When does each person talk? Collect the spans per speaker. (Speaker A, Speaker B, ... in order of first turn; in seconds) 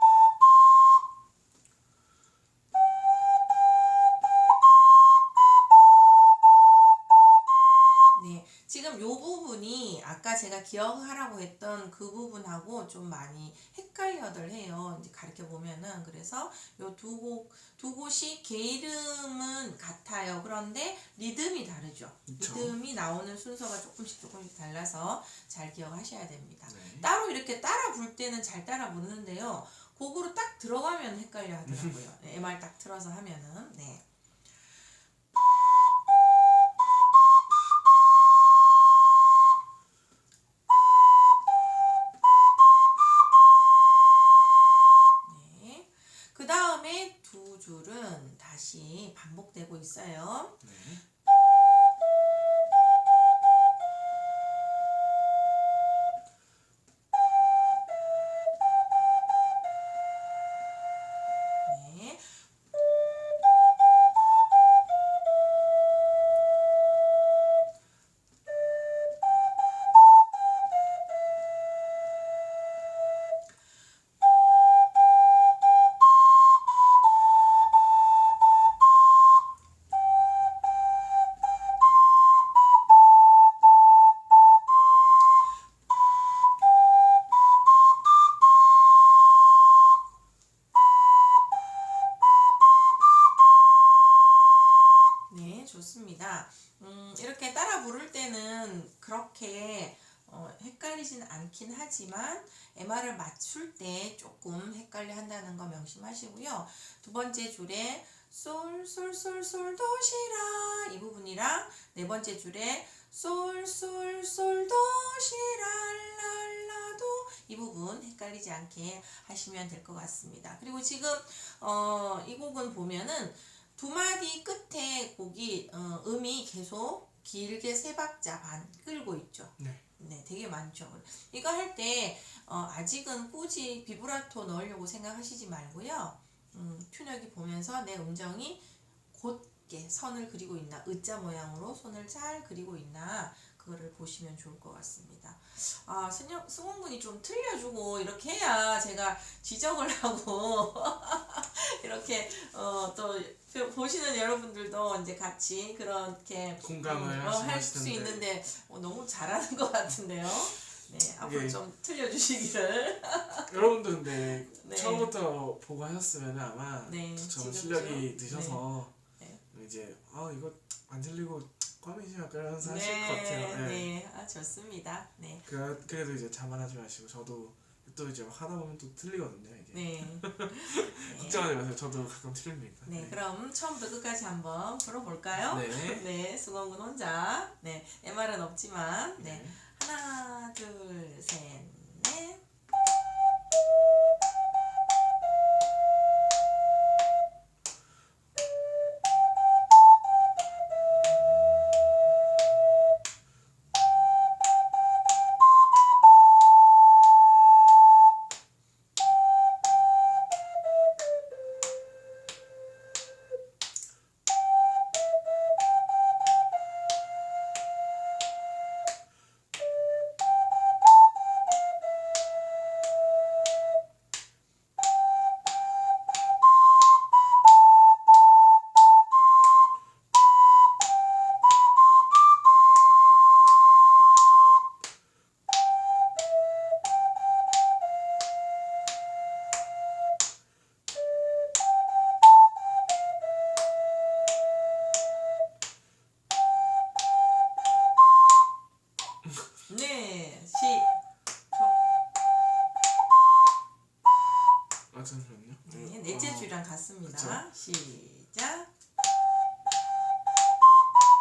Speaker A: 8.1-34.0, 45.2-50.6, 61.6-62.3, 95.3-163.5, 164.1-165.1, 166.8-168.6, 172.6-175.4, 179.7-181.5, 182.8-192.4, 249.7-250.9, 251.5-251.8, 255.6-258.7
Speaker B: 22.3-22.8, 26.7-27.1, 31.6-32.0, 50.6-51.0, 129.6-129.8, 156.6-158.2, 161.2-161.6, 163.5-168.9, 169.5-173.9, 175.4-183.2, 185.3-186.1, 189.2-189.6, 254.9-256.5, 257.1-257.4